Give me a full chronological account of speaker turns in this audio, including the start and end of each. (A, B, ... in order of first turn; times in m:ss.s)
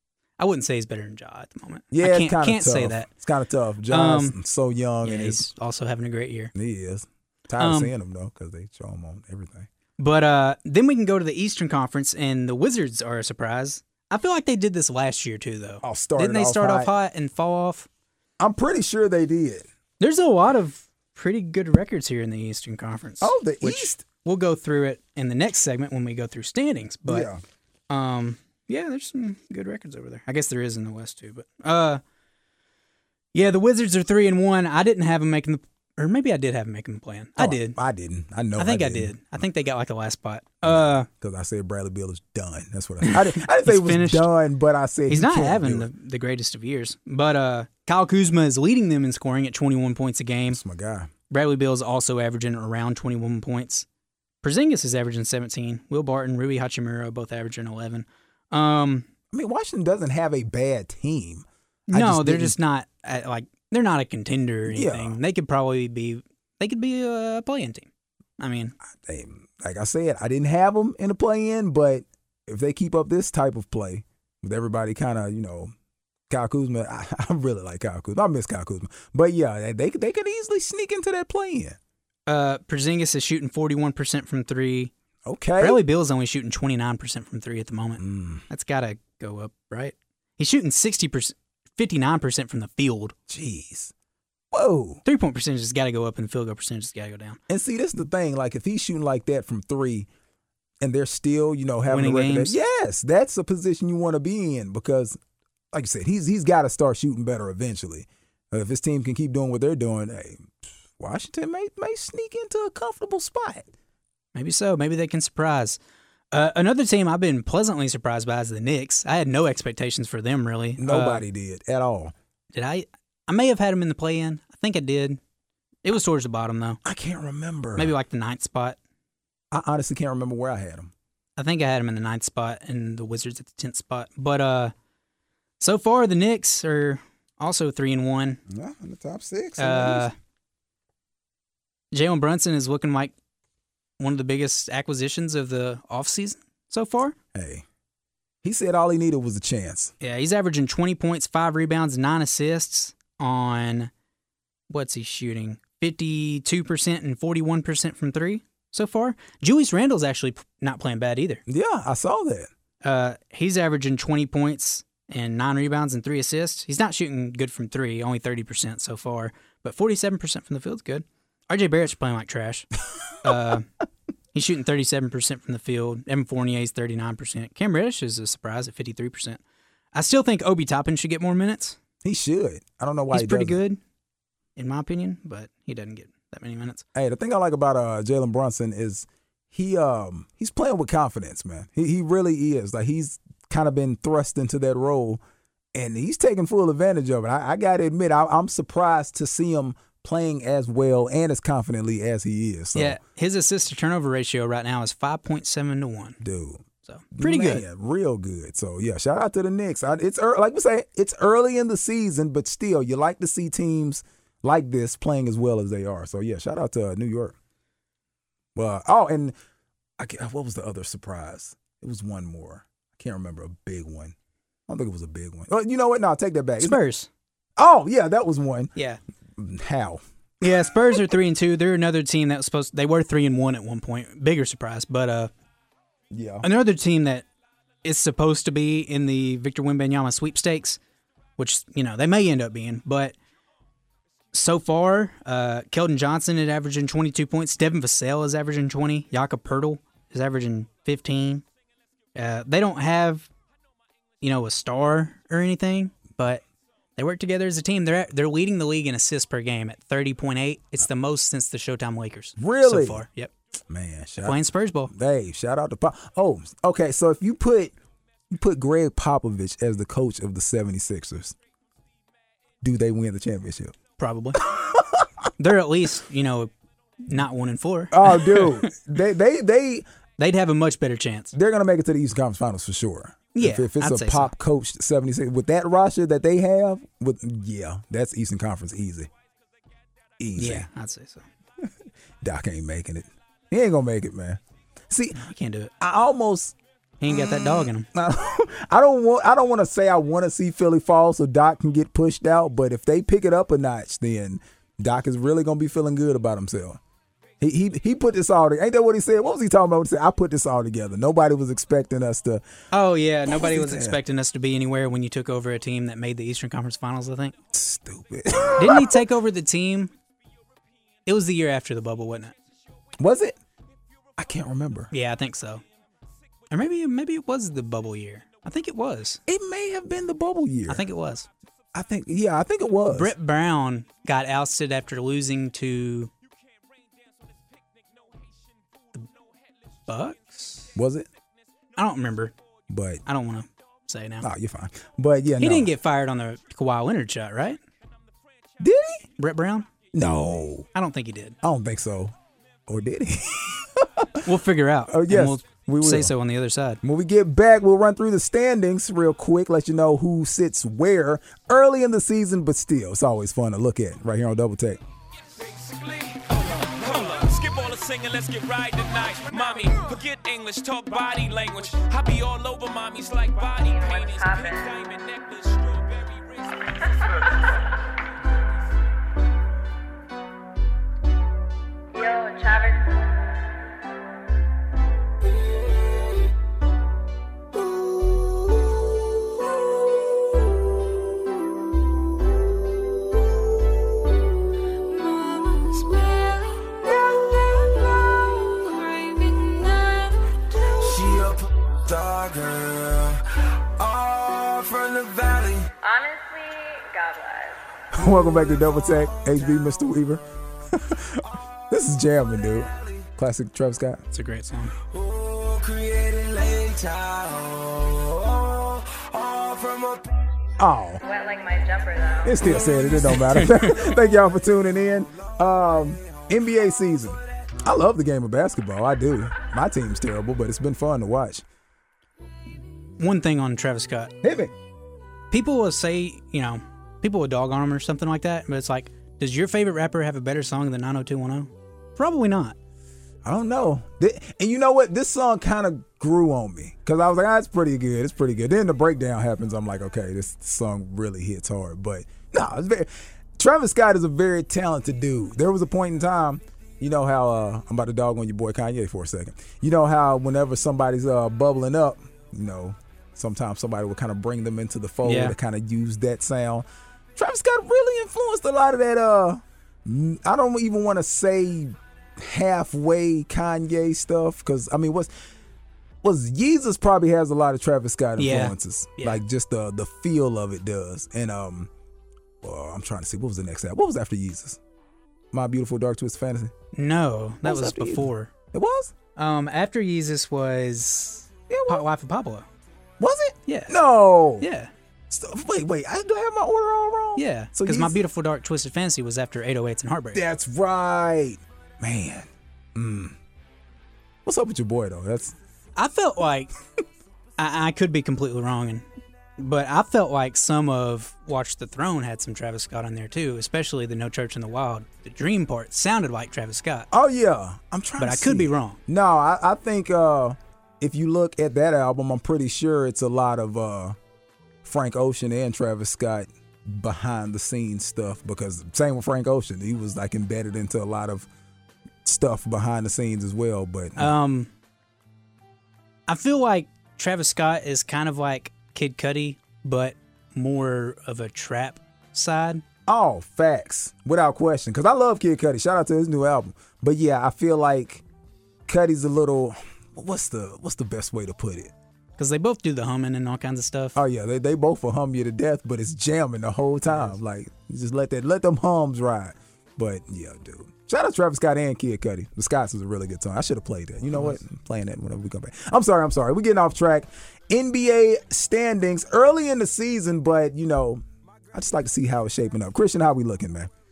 0:00.4-0:03.1 A
0:01.9-0:05.4 B
0:03.9-0:04.4 A
0:05.0-0:06.5 A
0:06.5-0:09.7 B
0:07.6-0:07.9 A
0:10.0-0:17.9 A
0:15.8-0:16.9 B
0:18.4-0:19.7 B
0:20.0-0:27.3 A
0:23.2-0:24.0 B
0:27.0-0:27.4 B
0:27.9-0:32.0 A
0:33.3-0:37.8 A
0:37.4-0:39.2 B
0:38.6-0:41.1 A
0:40.6-0:45.9 B
0:43.0-0:44.3 A
0:45.1-0:50.6 A
0:50.5-0:51.1 B
0:51.3-0:53.8 A
0:54.4-0:59.1 A
0:59.3-1:02.6 B
1:01.9-1:08.7 A
1:04.7-1:05.2 B
1:08.9-1:15.7 B
1:16.3-1:21.8 B
1:22.3-1:24.9 A
1:25.2-1:25.8 B
1:25.6-1:33.1 A
1:28.0-1:28.4 B
1:33.3-1:33.9 B
1:34.5-1:35.0 B
1:35.0-1:37.4 A
1:37.5-1:40.1 B
1:40.8-1:45.2 B
1:41.9-1:42.6 A
1:45.7-1:53.7 B
1:54.3-1:55.8 A
1:56.3-2:01.2 A
2:00.8-2:02.1 B
2:02.5-2:05.2 A
2:05.8-2:06.8 A
2:06.8-2:07.9 B
2:07.8-2:08.8 A
2:09.5-2:10.9 B
2:11.4-2:14.7 A
2:15.6-2:18.4 A
2:18.5-2:20.1 B
2:19.6-2:20.1 A
2:21.9-2:23.1 A
2:24.0-2:27.2 A
2:27.3-2:27.6 B
2:28.4-2:29.9 B
2:30.0-2:33.9 A
2:34.7-2:41.4 A
2:41.5-2:42.5 B
2:42.8-2:53.7 A
2:54.3-2:59.4 A
2:59.9-3:01.8 A
3:02.0-3:03.6 B
3:03.1-3:03.8 A
3:04.6-3:06.8 A
3:06.9-3:15.2 B
3:15.7-3:23.0 B
3:22.7-3:26.2 A
3:26.2-3:37.3 B
3:26.8-3:27.6 A
3:38.5-3:39.3 B
3:40.0-3:44.1 B
3:44.7-3:46.8 B
3:46.6-3:47.1 A
3:47.6-3:48.7 B
3:49.4-3:50.0 B
3:50.4-3:55.3 A
3:56.1-3:56.5 B
3:56.4-3:57.2 A
3:57.8-4:00.8 A
4:01.4-4:03.1 A
4:04.3-4:11.4 A
4:12.1-4:13.3 A
4:14.2-4:16.4 A
4:17.0-4:23.3 A
4:22.4-4:23.0 B
4:23.7-4:27.7 B
4:24.2-4:24.9 A
4:28.3-4:31.3 B
4:32.6-4:33.8 B
4:34.0-4:34.4 A
4:34.3-4:35.3 B
4:35.4-4:36.5 A
4:37.0-4:38.7 A
4:37.9-4:39.8 B
4:40.2-4:41.3 A
4:41.3-4:49.1 B
4:43.3-4:44.3 A
4:50.2-4:50.7 B
4:50.4-4:51.2 A
4:51.6-4:55.3 B
4:55.1-4:55.7 A
4:55.8-4:56.5 B
4:57.0-4:57.9 A
4:57.0-5:06.8 B
5:07.4-5:12.4 B
5:12.7-5:17.4 A
5:13.3-5:14.0 B
5:17.5-5:19.0 B
5:18.6-5:19.9 A
5:21.0-5:22.3 A
5:23.0-5:23.4 B
5:24.2-5:24.9 B
5:24.9-5:25.6 A
5:26.5-5:29.2 A
5:29.3-5:30.9 B
5:30.7-5:31.3 A
5:31.7-5:33.1 B
5:32.9-5:36.1 A
5:39.9-5:40.7 A
5:40.7-5:41.1 B
5:41.8-5:42.3 A
5:42.7-5:43.0 B
5:43.0-5:44.2 A
5:44.2-5:45.7 B
5:45.4-5:47.6 A
5:48.6-5:49.0 B
5:49.2-5:49.7 A
5:49.9-5:50.7 B
5:50.7-5:51.4 A
5:51.4-5:52.1 B
5:52.7-5:54.2 B
5:54.2-5:56.8 A
5:54.9-5:56.1 B
5:56.8-6:04.8 B
6:05.4-6:17.6 C
6:13.6-6:14.7 D
6:21.9-6:23.2 D
6:34.9-6:36.8 D
6:36.9-6:37.7 E
6:37.5-6:40.3 D
6:40.6-6:45.7 E
6:45.8-6:47.6 D
6:47.9-6:54.0 B
6:52.6-6:53.0 E
6:54.1-6:54.7 A
6:54.9-7:00.1 E
7:00.6-7:01.0 B
7:01.0-7:02.5 D
7:02.2-7:11.4 B
7:03.0-7:03.9 A
7:13.0-7:14.1 A
7:14.2-7:14.5 B
7:15.3-7:22.6 A
7:23.2-7:55.1 B
7:45.0-7:45.4 A
7:56.0-8:01.7 B
7:58.2-7:59.2 A
8:02.4-8:04.6 B
8:05.3-8:06.5 B
8:06.7-8:08.3 A
8:07.4-8:08.9 B
8:09.2-8:12.5 A
8:11.5-8:11.8 B
8:13.0-8:14.5 B
8:13.5-8:13.7 A
8:14.4-8:14.7 A
8:15.1-8:18.0 B
8:17.2-8:20.2 A
8:20.1-8:23.2 B
8:24.2-8:25.3 B
8:25.8-8:26.5 A
8:27.4-8:28.8 A
8:29.4-8:36.9 A
8:36.9-8:44.0 B
8:38.0-8:38.8 A
8:44.6-8:51.3 B
8:52.0-8:54.2 B
8:54.0-8:54.5 A
8:56.1-9:02.6 A
9:02.9-9:08.0 B
9:08.7-9:11.7 B
9:12.2-9:14.0 A
9:13.9-9:33.7 B